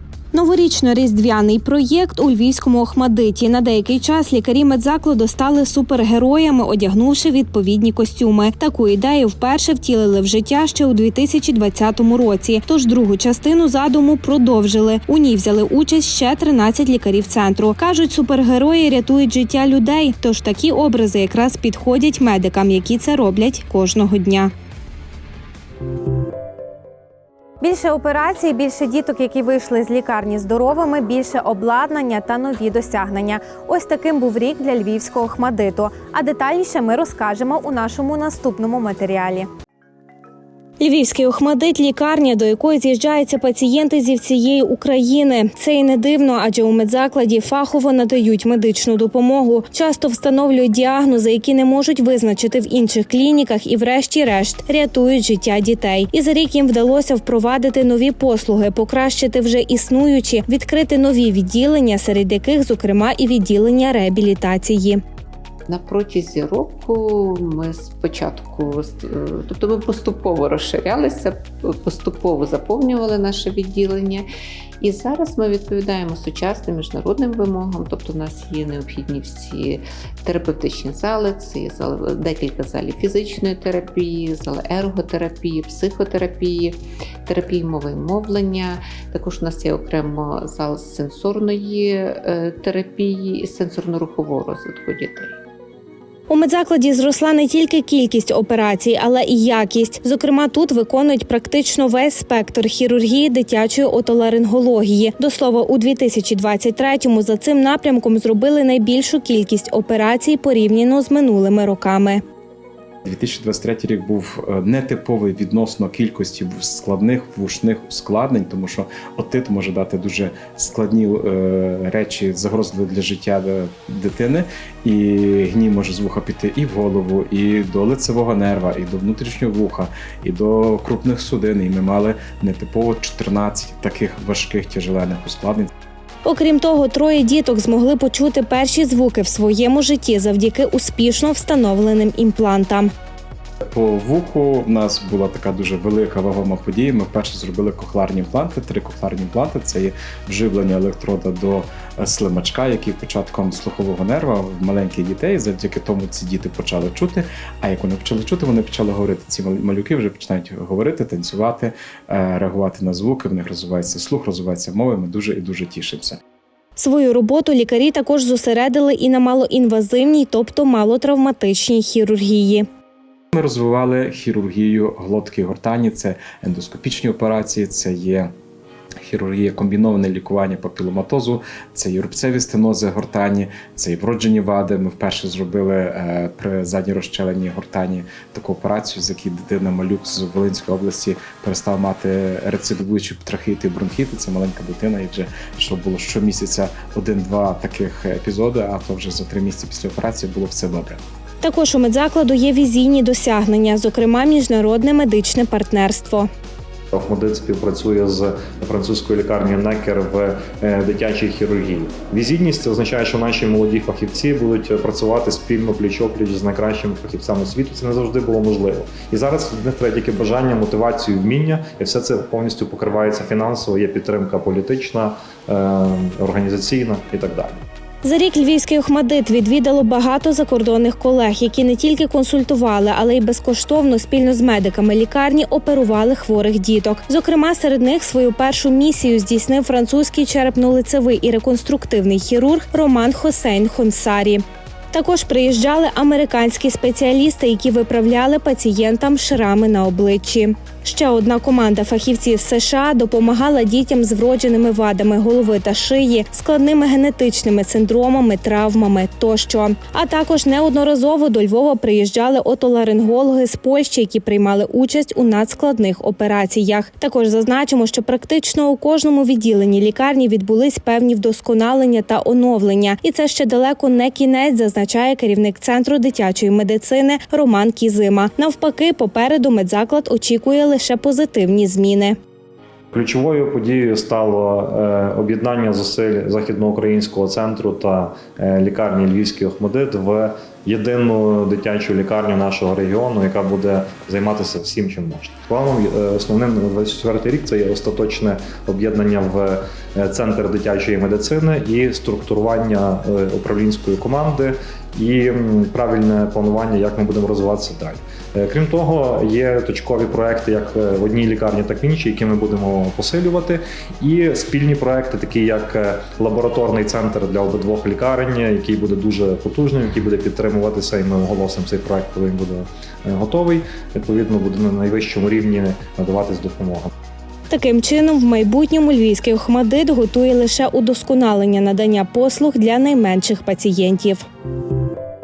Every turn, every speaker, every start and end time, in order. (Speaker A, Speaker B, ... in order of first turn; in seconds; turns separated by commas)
Speaker A: 0.3-24.5, Speaker A: 27.6-39.5, Speaker A: 40.8-65.0, Speaker B: 65.7-74.2, Speaker B: 74.8-95.4, Speaker A: 96.3-112.2, Speaker C: 113.0-135.7, Speaker A: 136.2-142.9, Speaker C: 143.7-166.2, Speaker A: 166.8-172.7, Speaker C: 173.3-178.3, Speaker C: 179.0-201.0, Speaker A: 201.4-206.3, Speaker D: 206.9-227.6, Speaker A: 228.0-282.2, Speaker D: 282.9-326.9, Speaker A: 327.5-334.2